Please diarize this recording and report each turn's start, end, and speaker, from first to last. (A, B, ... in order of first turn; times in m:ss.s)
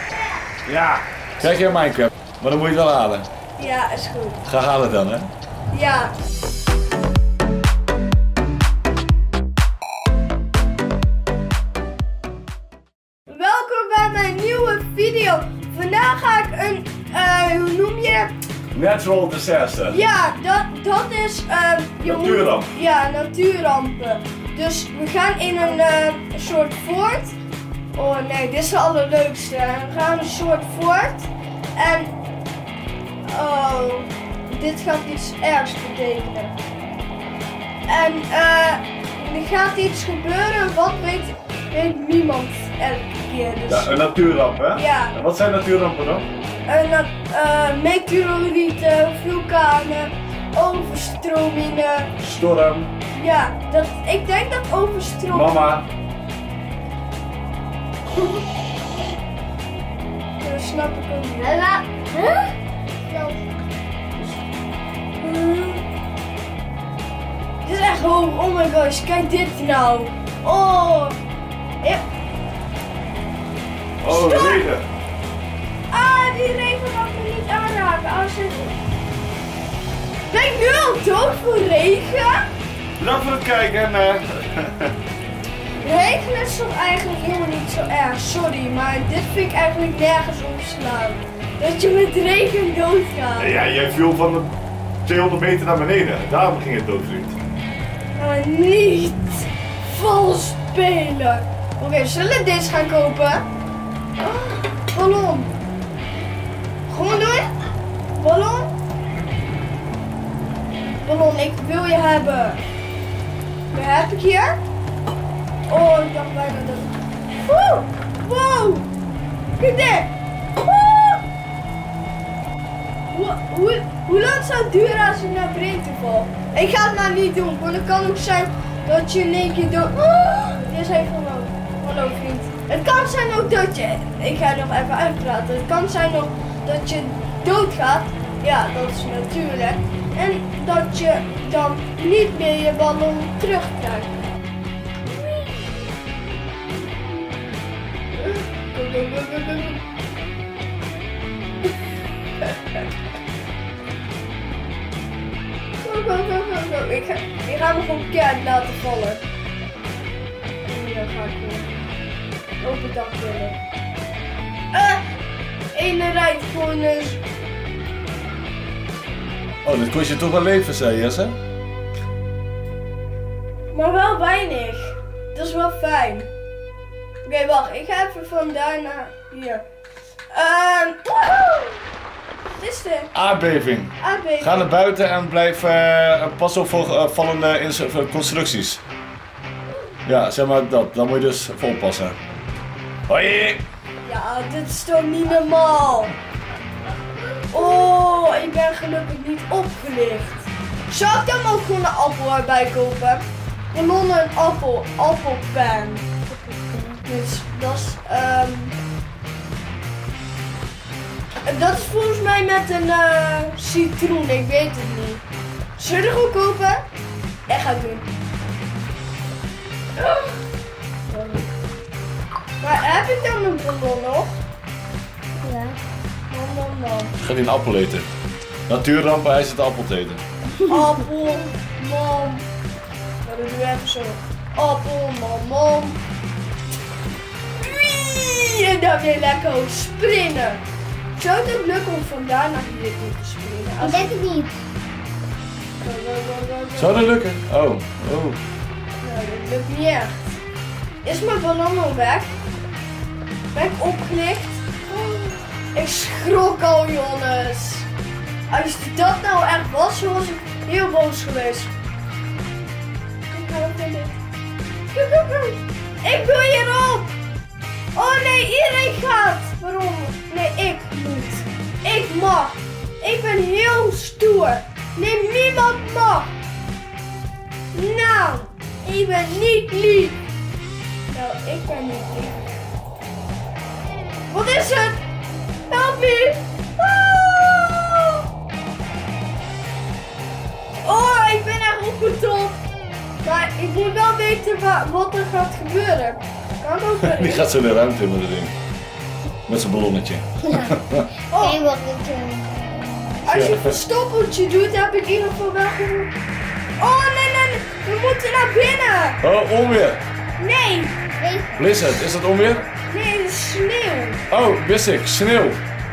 0:00.7-0:03.3 A
0:03.6-0:04.4 B
0:04.4-0:05.3 A
0:05.7-0:06.2 B
0:13.3-0:18.3 B
0:18.7-0:20.0 A
0:19.9-0:27.3 B
0:22.0-0:22.7 A
0:27.9-0:32.1 B
0:33.2-0:36.6 B
0:37.9-0:44.0 B
0:43.7-0:46.3 A
0:44.7-0:45.2 B
0:46.7-0:52.1 B
0:52.2-0:52.9 A
0:53.1-0:55.7 B
0:55.3-0:55.9 A
1:00.4-1:01.6 B
1:01.4-1:03.4 C
1:05.2-1:05.8 B
1:07.6-1:11.2 B
1:14.0-1:14.9 A
1:14.0-1:14.7 B
1:15.9-1:18.8 B
1:20.3-1:22.5 B
1:23.0-1:24.9 A
1:25.8-1:33.6 B
1:33.4-1:34.5 A
1:35.0-1:37.4 A
1:38.2-1:43.4 B
1:44.2-1:45.5 B
1:46.9-1:47.5 B
1:48.2-1:48.8 B
1:51.0-1:52.6 B
1:53.7-1:54.6 B
1:55.7-1:56.9 B
1:57.5-1:58.9 B
1:59.6-2:01.2 B
2:03.1-2:24.2 B
2:25.1-2:25.8 B
2:28.2-2:29.8 B
2:32.4-2:32.8 B
2:35.8-2:39.2 B
2:40.7-2:41.7 B
2:42.6-2:43.6 B
2:44.7-2:45.0 B
2:45.7-2:47.2 B
2:49.6-2:51.4 A
2:53.7-2:56.3 B
2:57.2-2:59.6 B
3:00.3-3:01.8 B
3:02.6-3:03.1 B
3:03.1-3:08.8 A
3:04.0-3:04.7 B
3:10.0-3:12.2 A
3:13.1-3:13.6 A
3:14.0-3:16.2 B
3:17.5-3:26.0 B
3:26.4-3:27.0 C
3:27.0-3:28.8 B
3:31.4-3:35.2 B
3:35.8-3:36.8 B
3:37.5-3:38.1 B
3:40.0-3:40.4 B
3:41.1-3:41.5 B
3:42.6-3:44.4 B
3:45.4-3:45.8 C
3:46.3-3:47.1 B
3:47.2-3:48.1 A
3:48.7-3:50.2 A
3:50.7-3:52.4 B
3:53.2-3:56.0 B
3:57.6-4:00.6 B
4:01.2-4:04.2 B
4:03.8-4:04.6 C
4:05.8-4:07.0 B
4:06.8-4:08.4 A
4:09.0-4:10.4 B
4:11.0-4:12.3 B
4:13.5-4:17.9 B
4:18.5-4:21.7 B
4:23.3-4:24.2 B
4:24.9-4:27.2 B
4:27.9-4:36.3 B
4:37.7-4:40.2 B
4:41.1-4:42.5 B
4:44.3-4:45.0 B
4:45.7-4:48.2 B
4:50.8-4:52.6 B
4:53.2-4:57.5 B
4:57.0-4:58.5 A
4:59.5-5:01.1 A
5:00.4-5:00.8 C
5:01.3-5:01.6 B
5:01.3-5:03.2 C
5:03.2-5:06.1 B
5:03.3-5:03.8 A
5:06.8-5:09.2 B
5:09.2-5:10.0 A
5:10.4-5:11.0 B
5:11.2-5:11.9 C
5:11.6-5:12.7 A
5:12.9-5:14.2 B
5:14.3-5:15.6 A